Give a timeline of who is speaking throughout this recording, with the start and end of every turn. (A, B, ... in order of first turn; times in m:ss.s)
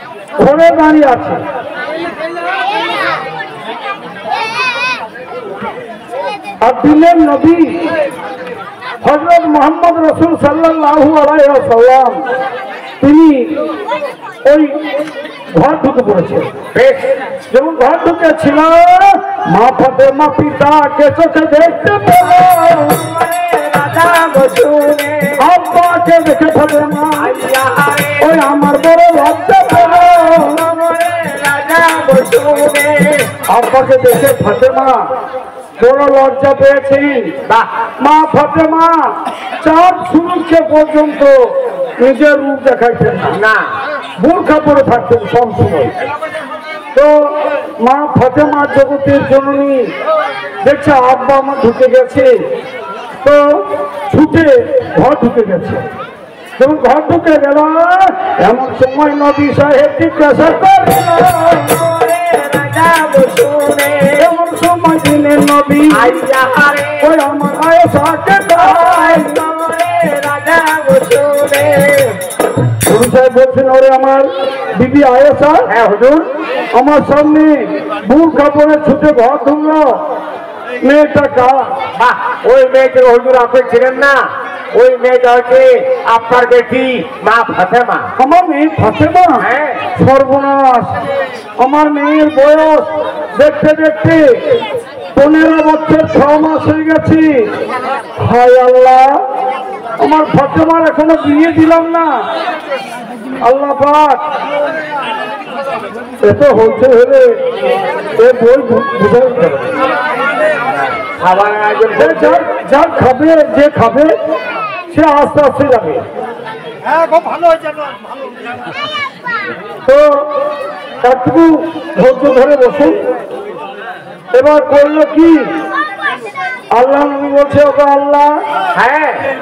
0:00.4-0:01.4 A
0:06.6-0:07.9 A
0:09.0-0:12.2 A
0:13.0-0:13.7 A
0:14.4-0:14.8 A
0:15.5-0:16.5 A
0:16.7-0:17.1 B
0:17.5-0:23.0 A
0:22.8-0:25.4 B
0:25.4-0:27.3 A
0:27.2-0:28.3 B
0:28.2-0:30.6 A
0:29.9-0:33.3 B
0:33.5-0:35.0 A
0:35.8-0:37.3 A
0:38.0-0:43.4 A
0:43.3-0:43.7 B
0:44.2-0:45.9 A
0:46.9-0:49.9 A
0:50.6-0:52.4 A
0:53.2-0:55.8 A
0:56.6-1:01.6 A
1:01.4-1:04.3 B
1:04.2-1:06.2 A
1:05.9-1:07.1 B
1:07.0-1:09.4 A
1:08.6-1:12.2 B
1:12.8-1:15.7 A
1:15.7-1:16.2 B
1:16.7-1:20.0 A
1:20.8-1:21.7 A
1:22.0-1:28.1 B
1:28.2-1:31.0 A
1:29.4-1:29.9 B
1:31.6-1:34.6 A
1:35.1-1:37.5 A
1:38.2-1:39.2 A
1:40.0-1:42.3 A
1:43.4-1:44.2 A
1:46.2-1:47.4 A
1:48.2-1:49.7 A
1:51.2-1:52.4 B
1:51.9-1:54.1 A
1:54.9-1:56.0 A
1:59.8-2:00.3 A
2:01.0-2:03.0 A
2:04.3-2:05.5 A
2:06.7-2:08.4 A
2:08.7-2:09.3 B